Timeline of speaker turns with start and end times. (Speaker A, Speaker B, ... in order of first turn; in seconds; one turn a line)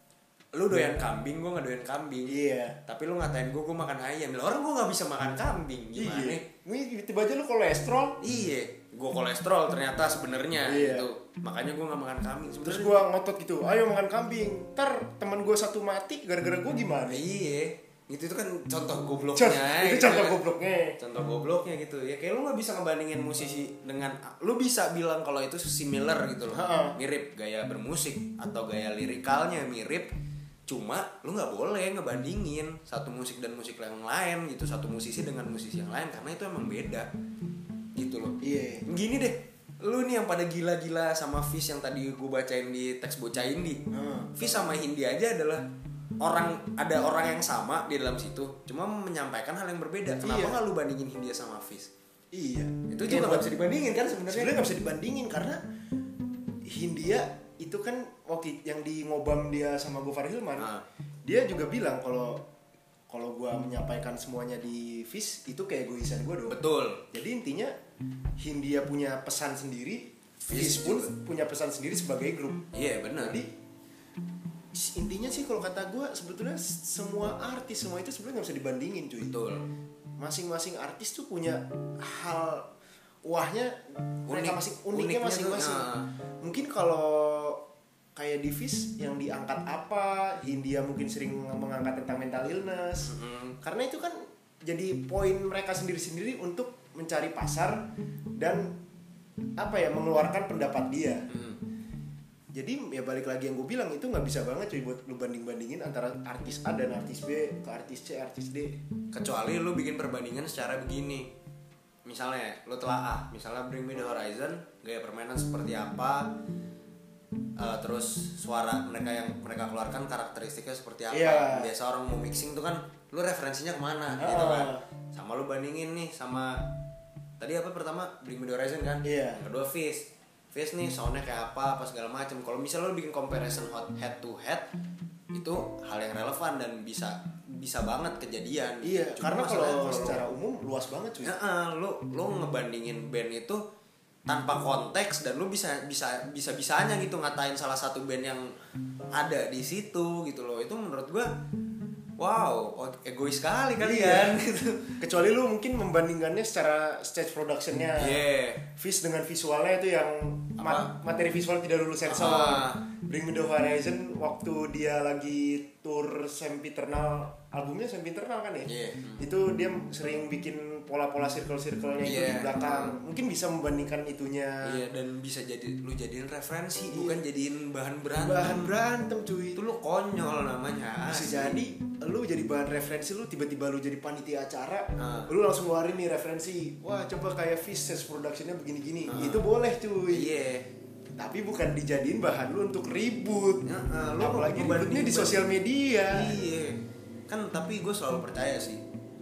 Speaker A: 0.5-6.4
Speaker B: 2.3-2.8
Speaker B: 6.0-8.2
Speaker A: 8.2-13.0
Speaker B: 10.6-11.1
Speaker B: 12.6-17.2
Speaker A: 17.1-20.4
Speaker B: 19.4-21.0
Speaker A: 21.0-30.1
Speaker B: 26.5-27.0
Speaker A: 30.7-37.1
Speaker A: 38.0-43.8
Speaker B: 38.4-38.9
Speaker B: 43.9-44.3
Speaker A: 44.4-45.6
Speaker A: 46.2-51.9
Speaker B: 50.2-50.6
Speaker B: 52.3-53.5
Speaker A: 52.9-54.5
Speaker B: 54.3-55.6
Speaker B: 56.6-60.7
Speaker A: 60.6-60.8
Speaker B: 61.2-62.4
Speaker B: 63.1-66.6
Speaker A: 66.5-67.0
Speaker B: 67.1-67.7
Speaker B: 68.4-72.7
Speaker A: 70.5-71.1
Speaker A: 72.7-73.4
Speaker B: 73.2-73.5
Speaker B: 74.7-79.3
Speaker A: 79.3-79.7
Speaker B: 80.2-82.7
Speaker B: 83.2-85.9
Speaker A: 84.3-86.1
Speaker B: 86.4-87.6
Speaker B: 88.2-97.9
Speaker A: 93.0-93.6
Speaker B: 98.4-98.8
Speaker B: 99.6-101.3
Speaker A: 101.3-101.6
Speaker B: 102.5-108.8
Speaker A: 109.1-111.3
Speaker A: 112.1-116.3
Speaker A: 117.6-126.7
Speaker B: 121.1-121.7
Speaker B: 124.2-124.8
Speaker A: 127.4-134.7
Speaker B: 129.0-129.4
Speaker A: 135.3-140.2
Speaker B: 138.8-141.3
Speaker A: 141.2-143.6
Speaker A: 144.3-148.6
Speaker A: 149.1-151.3
Speaker A: 152.2-155.0
Speaker B: 153.8-154.4
Speaker B: 155.0-158.2
Speaker A: 157.9-158.6
Speaker B: 158.8-174.8
Speaker A: 160.6-160.9
Speaker A: 162.1-162.8
Speaker A: 168.7-169.3
Speaker A: 172.0-172.9
Speaker A: 174.6-178.7
Speaker B: 176.9-177.2
Speaker B: 178.2-179.6
Speaker A: 179.5-181.6
Speaker B: 181.1-190.3
Speaker A: 185.0-185.3
Speaker A: 189.1-189.4
Speaker A: 190.1-190.7
Speaker B: 191.2-193.6
Speaker A: 193.6-195.4
Speaker B: 194.2-196.3
Speaker A: 196.1-198.8